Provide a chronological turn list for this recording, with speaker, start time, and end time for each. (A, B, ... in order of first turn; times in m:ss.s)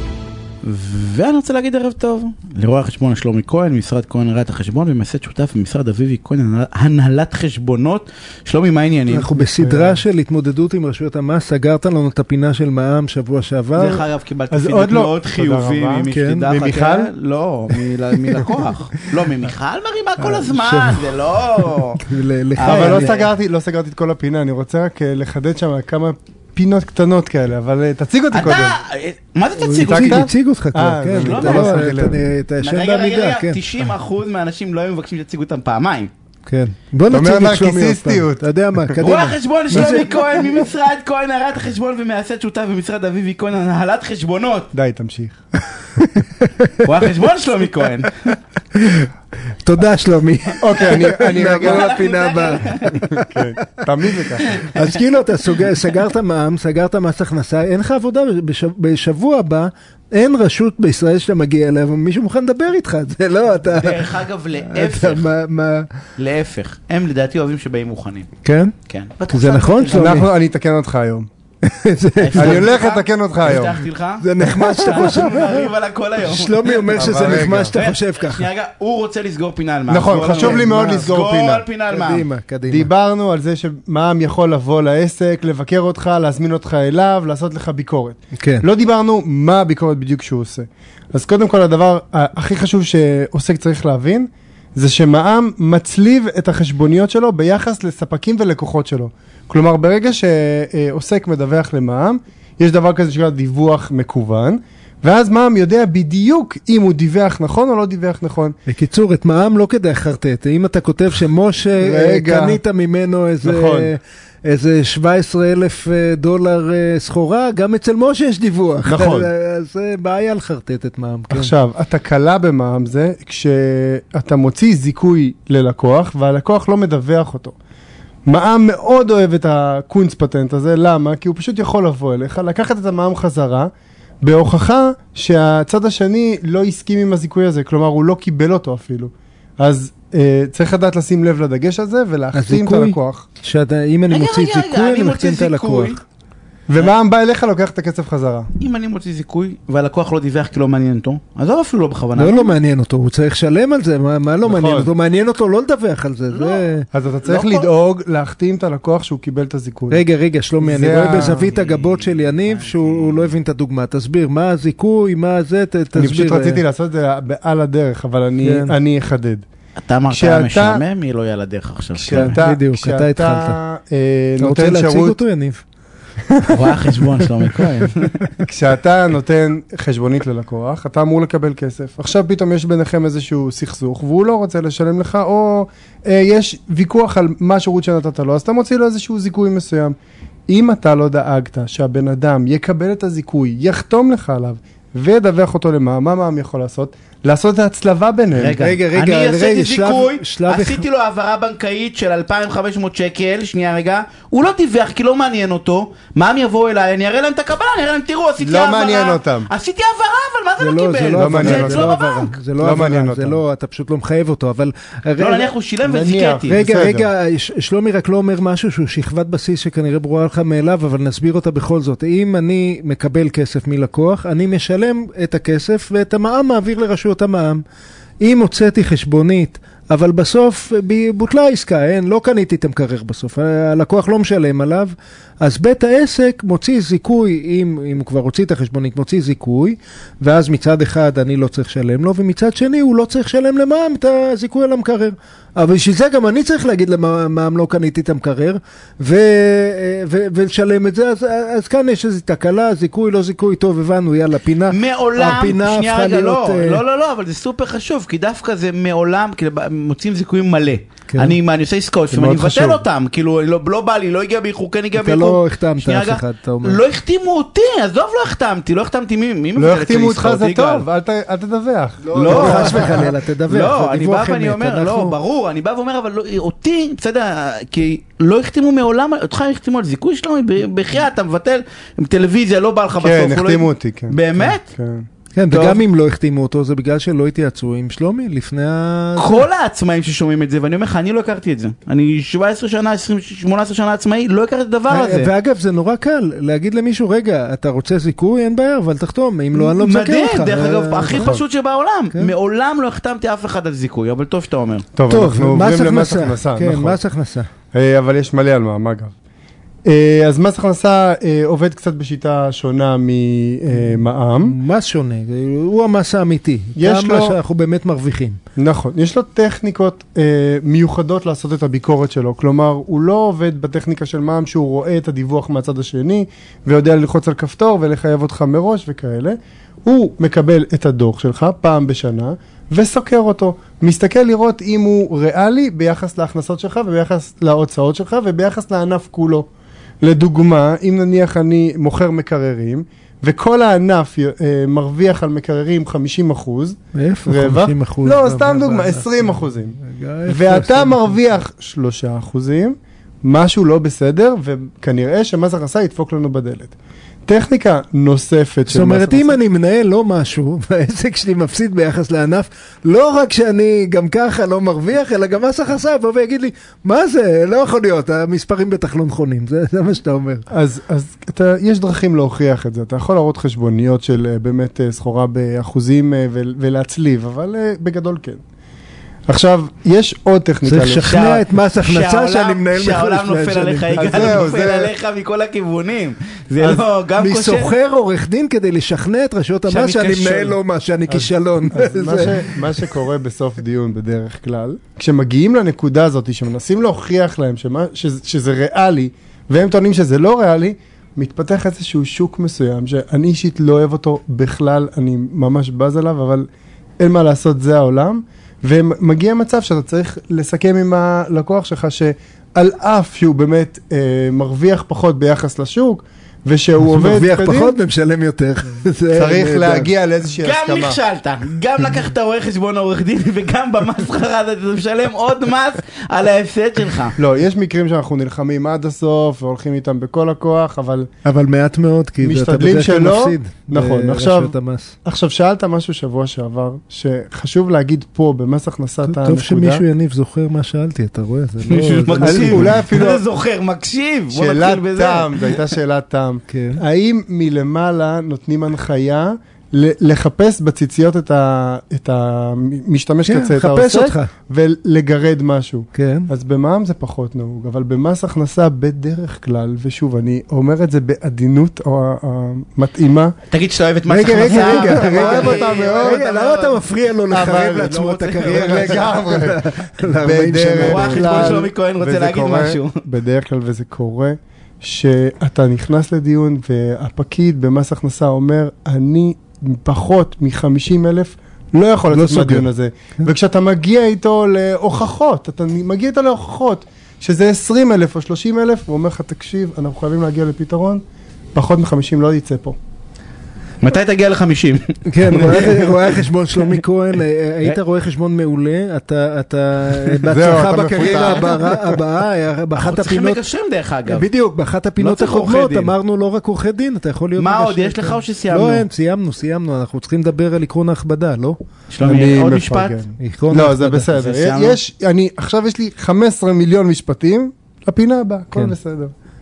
0:00.6-0:09.3 A
0:09.1-0:14.0 B
0:09.3-0:10.0 C
0:13.8-0:22.0 A
0:14.5-0:17.1 C
0:16.1-0:16.5 B
0:18.2-0:19.0 B
0:20.2-0:23.1 B
0:22.6-0:23.3 A
0:22.6-0:28.8 C
0:28.3-0:30.3 A
0:29.6-0:33.6 B
0:29.8-0:32.2 C
0:31.2-0:31.9 A
0:32.6-0:36.1 A
0:36.4-0:40.3 B
0:37.1-0:39.0 C
0:39.0-0:44.7 A
0:39.7-0:40.0 C
0:44.7-0:45.4 C
0:45.8-0:46.9 B
0:46.8-0:48.3 A
0:48.7-0:49.1 B
0:49.6-0:53.8 B
0:50.6-0:52.6 C
0:51.2-0:52.9 A
0:53.2-0:54.6 C
0:54.5-1:05.9 B
1:03.7-1:05.3 A
1:06.2-1:08.3 A
1:08.4-1:08.8 B
1:08.9-1:10.2 A
1:09.3-1:10.3 B
1:09.9-1:11.3 C
1:11.6-1:12.7 B
1:12.2-1:17.2 A
1:12.3-1:13.8 C
1:14.2-1:15.7 B
1:16.2-1:18.5 B
1:16.9-1:17.8 C
1:17.7-1:22.3 A
1:19.9-1:21.6 C
1:20.2-1:21.1 B
1:21.9-1:22.9 B
1:22.7-1:48.5 C
1:28.4-1:28.6 B
1:48.6-2:01.5 B
1:51.8-1:52.6 C
1:53.4-1:53.9 C
1:58.8-1:59.3 C
2:01.3-2:07.6 C
2:08.3-2:13.7 C
2:14.2-2:23.3 C
2:22.3-2:26.0 B
2:24.1-2:26.0 A
2:26.7-2:28.5 C
2:28.6-2:32.6 A
2:32.2-2:36.9 B
2:34.4-2:34.9 C
2:36.3-2:36.6 A
2:36.9-2:40.0 C
2:37.2-2:37.7 A
2:39.9-2:46.6 B
2:40.6-2:41.5 C
2:41.1-2:43.4 A
2:45.9-2:49.4 C
2:48.4-2:48.8 B
2:49.8-2:52.4 A
2:50.1-2:50.8 C
2:52.0-2:55.2 C
2:52.1-2:53.6 B
2:54.4-2:55.6 B
2:56.3-2:57.7 B
2:56.5-2:58.1 A
2:58.4-3:10.0 C
3:10.5-3:18.6 C
3:18.4-3:32.3 A
3:18.6-3:20.8 B
3:28.4-3:29.5 C
3:30.6-3:35.5 B
3:31.1-3:32.0 C
3:32.6-3:33.4 C
3:35.2-3:36.6 A
3:35.8-3:37.1 C
3:36.5-3:47.6 B
3:48.2-4:16.8 B
4:14.7-4:30.8 A
4:21.1-4:21.4 B
4:22.1-4:22.8 C
4:24.9-4:26.8 B
4:29.6-4:33.1 C
4:32.1-4:35.2 B
4:32.1-4:44.7 A
4:43.0-4:45.0 C
4:45.3-4:49.4 B
4:45.5-4:45.8 A
4:49.2-4:55.3 A
4:54.9-5:01.4 B
4:59.8-5:04.9 A
5:01.2-5:01.4 C
5:04.9-5:07.0 C
5:05.1-5:07.5 B
5:07.7-5:09.1 C
5:09.8-5:14.6 C
5:13.7-5:18.4 B
5:16.8-5:17.4 C
5:18.6-5:39.5 C
5:40.0-5:56.7 C
5:46.9-5:51.2 B
5:57.2-5:59.4 C
5:58.7-6:10.5 B
6:10.5-6:18.4 C
6:19.3-6:21.1 C
6:20.6-6:24.6 B
6:21.0-6:27.7 A
6:24.0-6:24.9 C
6:26.6-6:26.8 C
6:27.2-6:32.9 B
6:29.7-6:30.6 A
6:31.1-6:46.5 C
6:47.0-6:57.8 C
6:56.8-6:59.9 B
6:59.1-7:01.0 C
7:00.4-7:07.2 A
7:07.2-7:11.1 C
7:11.2-7:15.0 B
7:12.2-7:19.8 C
7:19.0-7:22.8 B
7:21.7-7:25.7 A
7:21.8-7:23.2 C
7:24.3-7:43.3 C
7:26.5-7:26.8 B
7:33.2-7:34.3 B
7:35.9-7:36.3 B
7:43.5-7:46.8 A
7:44.1-7:51.7 B
7:44.2-7:46.2 C
7:47.3-8:12.8 C
7:47.6-7:49.0 A
7:50.8-7:53.0 A
8:02.1-8:02.6 B
8:13.8-8:16.8 A
8:15.0-8:23.4 B
8:20.3-8:21.7 C
8:21.0-8:21.8 A
8:22.7-8:24.3 A
8:24.0-8:31.6 B
8:25.0-8:25.9 A
8:27.4-8:28.8 A
8:31.9-8:33.0 A
8:32.0-8:39.1 C
8:33.2-8:34.1 B
8:34.1-8:34.8 A